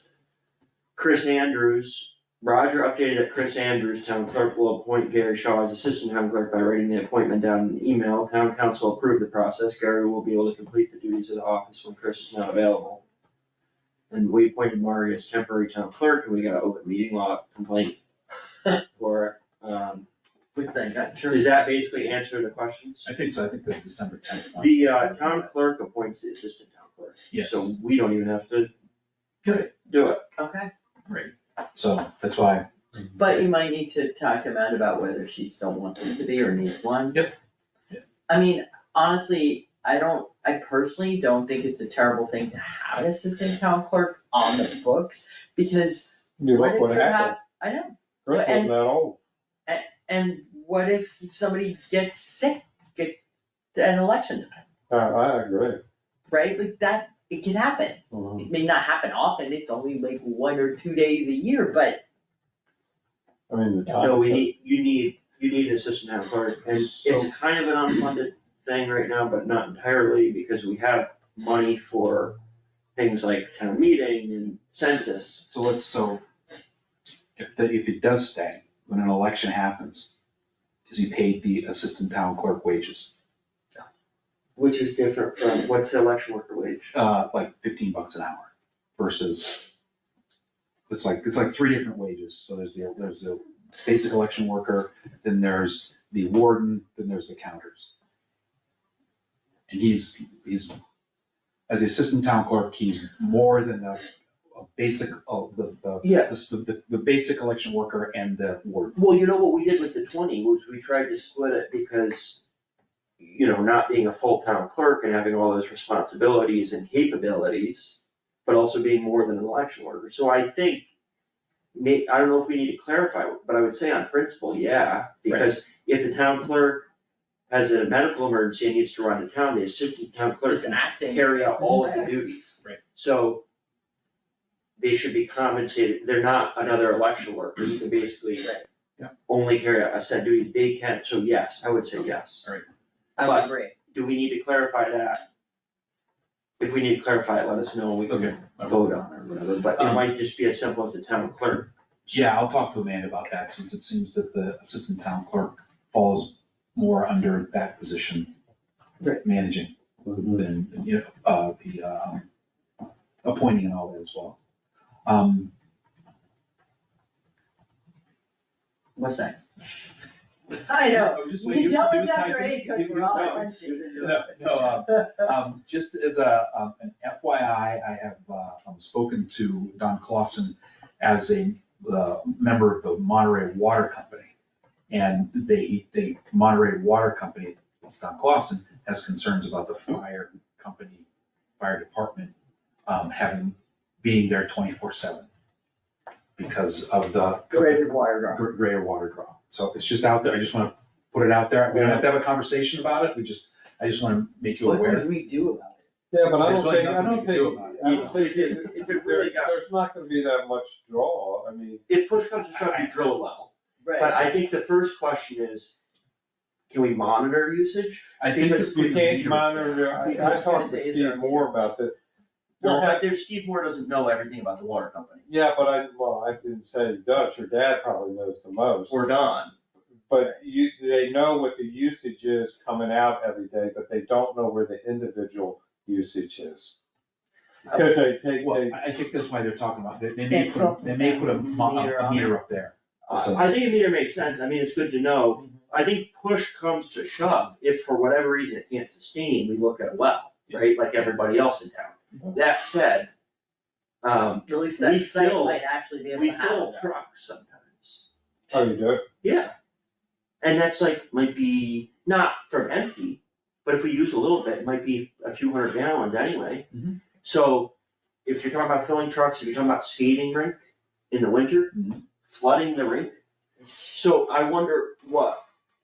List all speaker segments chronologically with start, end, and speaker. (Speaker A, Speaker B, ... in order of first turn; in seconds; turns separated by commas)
Speaker A: 1.0-13.0, Speaker A: 14.1-18.0, Speaker A: 18.9-20.1, Speaker B: 20.5-21.6, Speaker A: 21.3-23.1, Speaker C: 23.1-25.5, Speaker A: 24.6-28.7, Speaker C: 27.3-27.7, Speaker A: 29.5-30.3, Speaker B: 30.4-30.7, Speaker C: 31.1-32.7, Speaker B: 33.2-37.3, Speaker B: 38.3-48.7, Speaker D: 46.4-47.4, Speaker D: 48.3-49.2, Speaker B: 49.7-53.2, Speaker B: 53.7-54.7, Speaker D: 54.9-55.8, Speaker B: 56.3-62.0, Speaker D: 58.1-58.5, Speaker D: 63.5-64.5, Speaker A: 63.9-72.4, Speaker C: 66.7-67.3, Speaker A: 73.0-75.5, Speaker C: 75.5-76.2, Speaker C: 77.4-80.1, Speaker C: 80.9-83.1, Speaker A: 84.6-86.9, Speaker C: 86.9-89.7, Speaker C: 90.9-97.9, Speaker C: 99.7-100.8, Speaker C: 101.7-109.0, Speaker A: 106.0-106.3, Speaker A: 108.9-112.4, Speaker A: 113.2-120.9, Speaker A: 121.7-126.9, Speaker A: 127.5-133.4, Speaker B: 130.5-132.1, Speaker A: 134.8-138.5, Speaker A: 139.3-142.5, Speaker B: 143.2-143.8, Speaker A: 143.2-145.2, Speaker A: 146.6-152.3, Speaker C: 148.1-149.1, Speaker C: 149.8-150.1, Speaker C: 152.1-158.3, Speaker C: 159.2-159.7, Speaker D: 160.1-160.4, Speaker C: 160.3-162.3, Speaker C: 163.2-164.4, Speaker C: 165.1-165.5, Speaker B: 169.0-169.5, Speaker B: 170.7-175.3, Speaker C: 170.7-184.3, Speaker A: 173.2-174.3, Speaker C: 184.9-191.1, Speaker C: 191.6-192.3, Speaker C: 192.9-195.3, Speaker C: 196.4-205.1, Speaker B: 197.5-198.4, Speaker D: 201.7-202.0, Speaker B: 204.6-205.8, Speaker D: 206.1-211.8, Speaker C: 206.4-208.2, Speaker A: 207.8-209.6, Speaker A: 211.9-215.8, Speaker C: 212.6-212.9, Speaker B: 213.8-214.3, Speaker A: 216.7-218.9, Speaker C: 218.2-219.9, Speaker D: 218.7-222.0, Speaker A: 219.9-220.6, Speaker B: 220.0-221.5, Speaker D: 222.6-223.0, Speaker A: 222.6-225.3, Speaker D: 225.3-229.0, Speaker A: 228.9-229.5, Speaker D: 230.1-236.8, Speaker D: 237.7-238.8, Speaker C: 238.4-243.5, Speaker B: 240.3-242.4, Speaker A: 243.1-253.1, Speaker A: 254.0-258.1, Speaker B: 254.5-256.9, Speaker D: 258.5-259.0, Speaker A: 259.2-259.5, Speaker A: 260.4-266.7, Speaker C: 266.7-267.0, Speaker A: 267.2-267.7, Speaker A: 268.2-271.7, Speaker C: 271.7-272.0, Speaker A: 272.3-275.4